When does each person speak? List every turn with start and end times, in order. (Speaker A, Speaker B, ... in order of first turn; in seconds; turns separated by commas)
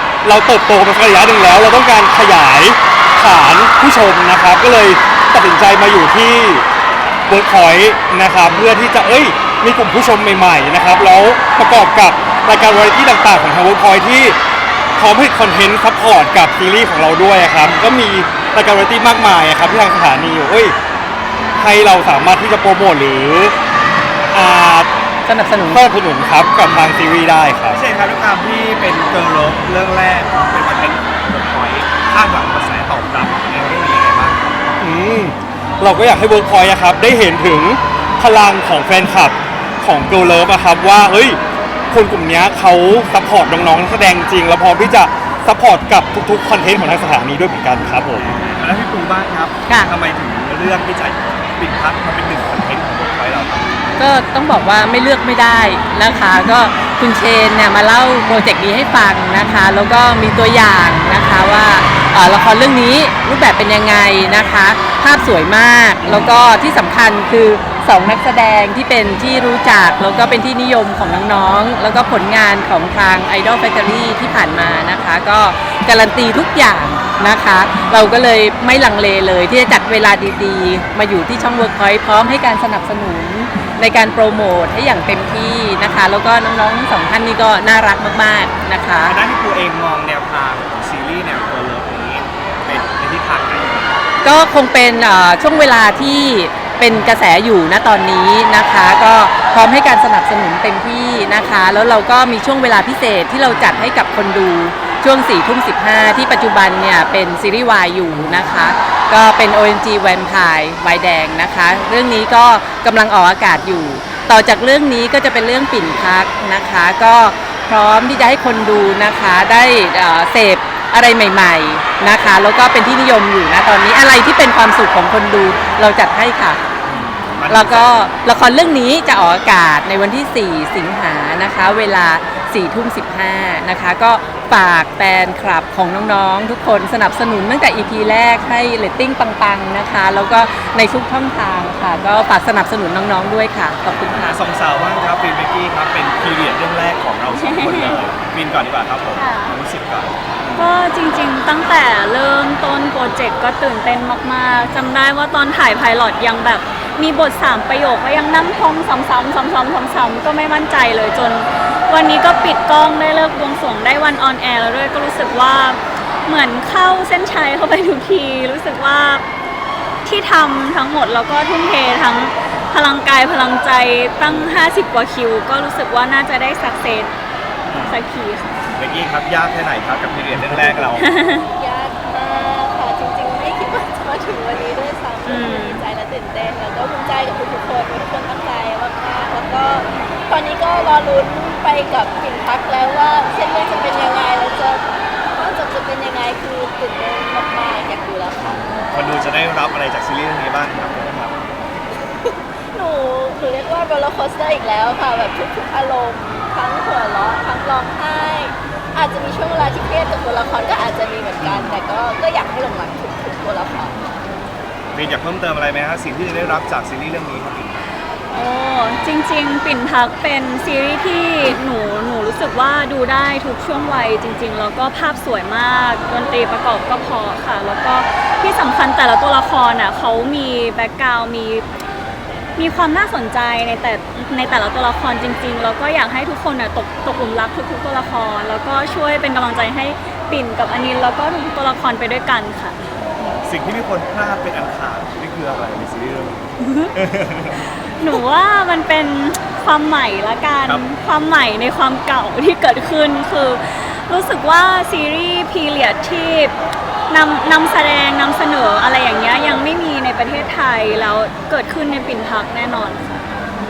Speaker A: 0.2-6.7, Speaker A: 7.3-14.4, Speaker A: 15.0-20.8, Speaker A: 21.6-23.5, Speaker A: 24.3-24.9, Speaker B: 25.3-25.8, Speaker A: 25.7-27.8, Speaker C: 27.7-34.6, Speaker A: 34.8-41.4, Speaker A: 41.9-48.3, Speaker C: 48.3-53.8, Speaker B: 54.0-89.2, Speaker C: 89.1-94.0, Speaker B: 94.2-126.6, Speaker C: 126.9-128.1, Speaker B: 127.5-144.4, Speaker C: 144.2-150.8, Speaker D: 147.3-148.0, Speaker D: 149.1-149.6, Speaker D: 150.6-169.2, Speaker D: 170.1-177.1, Speaker C: 174.2-174.5, Speaker C: 177.7-178.0, Speaker D: 177.7-178.6, Speaker C: 178.8-181.1, Speaker D: 181.0-181.5, Speaker E: 181.5-194.8, Speaker D: 185.2-185.8, Speaker E: 195.4-198.5, Speaker C: 198.5-201.5, Speaker E: 202.3-213.9, Speaker C: 211.4-211.8, Speaker C: 214.9-217.8, Speaker D: 218.3-231.7, Speaker D: 232.6-243.3, Speaker C: 242.9-247.6, Speaker D: 246.6-246.9, Speaker D: 247.5-256.6, Speaker D: 257.1-263.2